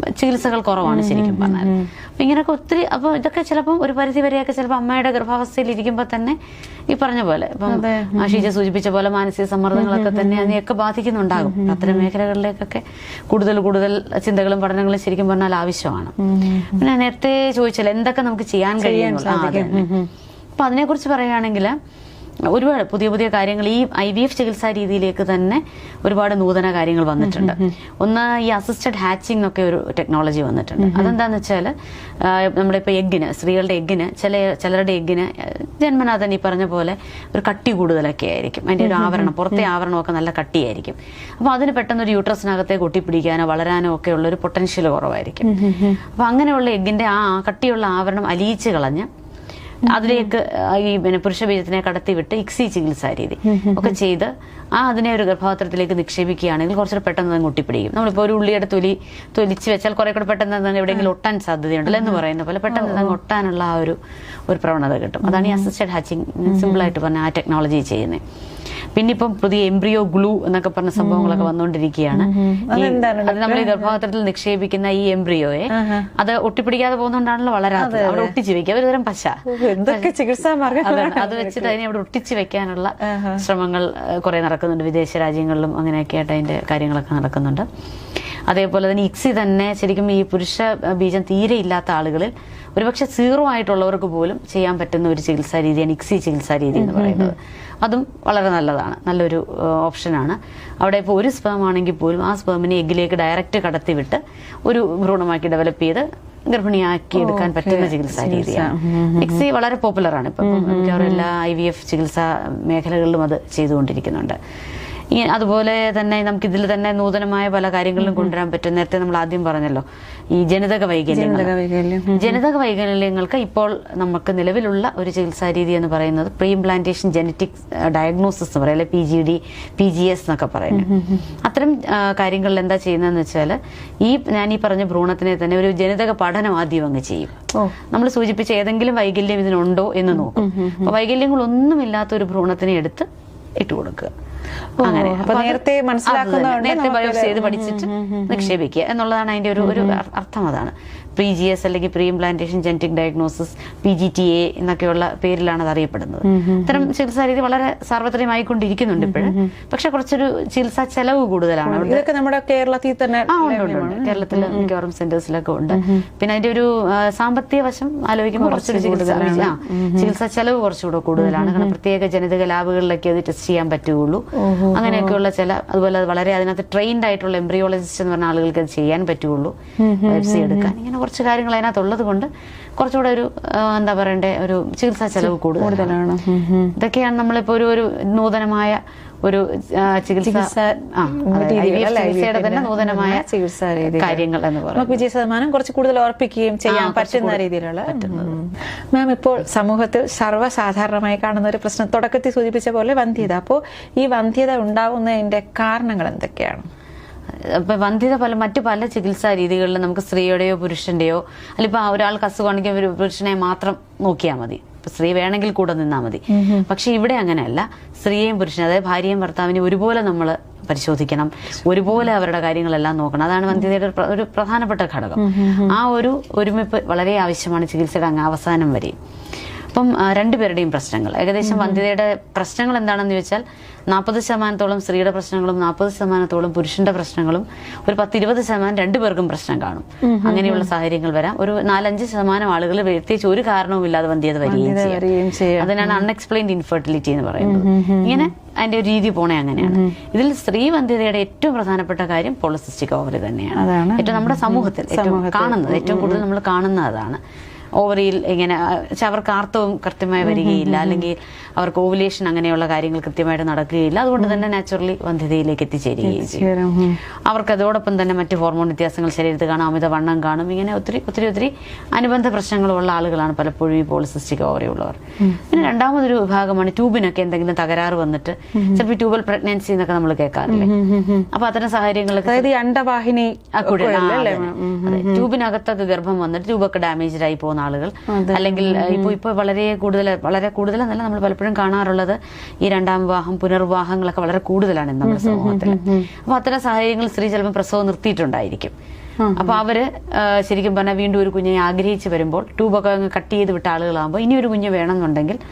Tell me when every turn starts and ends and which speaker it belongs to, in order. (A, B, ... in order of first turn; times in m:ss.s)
0:00.2-0:06.4 A
0:00.8-0:01.9 B
0:06.9-0:16.1 A
0:07.7-0:08.5 B
0:09.8-0:10.6 B
0:11.4-0:12.1 B
0:16.2-0:16.8 B
0:16.7-0:19.9 A
0:18.8-0:20.1 B
0:20.6-0:21.8 A
0:22.5-0:49.1 A
0:27.2-0:27.7 B
0:30.8-0:31.2 B
0:38.8-0:39.6 B
0:45.4-0:46.0 B
0:49.8-1:04.0 A
0:49.9-0:50.2 B
0:53.5-0:54.0 B
1:01.9-1:02.2 B
1:02.7-1:03.2 B
1:04.5-1:08.2 A
1:05.2-1:05.7 B
1:06.5-1:06.9 B
1:09.0-1:20.1 A
1:11.0-1:11.5 B
1:12.1-1:14.0 B
1:15.7-1:16.1 B
1:17.8-1:18.4 B
1:19.5-1:21.8 B
1:20.8-1:27.7 A
1:23.0-1:23.4 B
1:28.5-1:54.4 A
1:36.8-1:37.3 B
1:47.2-1:49.4 B
1:50.4-1:51.3 B
1:55.1-2:01.5 A
1:58.0-1:58.3 B
2:01.1-2:02.4 B
2:02.1-2:10.9 A
2:10.7-2:11.3 B
2:11.4-2:17.3 A
2:17.9-2:23.1 A
2:20.2-2:20.9 B
2:23.6-2:24.1 A
2:24.8-2:28.5 B
2:24.8-2:42.0 A
2:29.6-2:30.0 B
2:36.2-2:36.9 B
2:39.0-2:39.5 B
2:41.6-2:44.7 B
2:43.3-3:06.0 A
2:45.7-2:46.0 B
2:48.4-2:50.1 B
2:51.2-2:51.8 B
2:54.4-2:55.2 B
2:59.8-3:00.8 B
3:05.2-3:06.8 B
3:06.8-3:13.2 A
3:10.2-3:26.7 B
3:13.9-3:15.0 A
3:16.7-3:18.3 A
3:27.4-3:49.0 A
3:36.3-3:36.7 B
3:45.2-3:45.8 B
3:49.7-4:05.1 A
3:51.4-3:51.8 B
4:00.0-4:00.7 B
4:04.5-4:06.0 B
4:05.6-4:17.2 A
4:07.4-4:08.3 B
4:09.6-4:10.0 B
4:13.5-4:16.2 B
4:17.8-4:26.5 A
4:20.2-4:21.1 B
4:26.0-4:27.0 B
4:27.3-4:40.7 A
4:35.2-4:35.6 B
4:38.6-4:38.8 B
4:40.5-4:41.3 B
4:41.3-4:42.5 A
4:42.2-4:45.3 B
4:43.5-4:58.7 A
4:48.1-4:49.2 B
4:55.0-4:56.1 B
4:59.2-4:59.6 B
4:59.4-5:05.4 A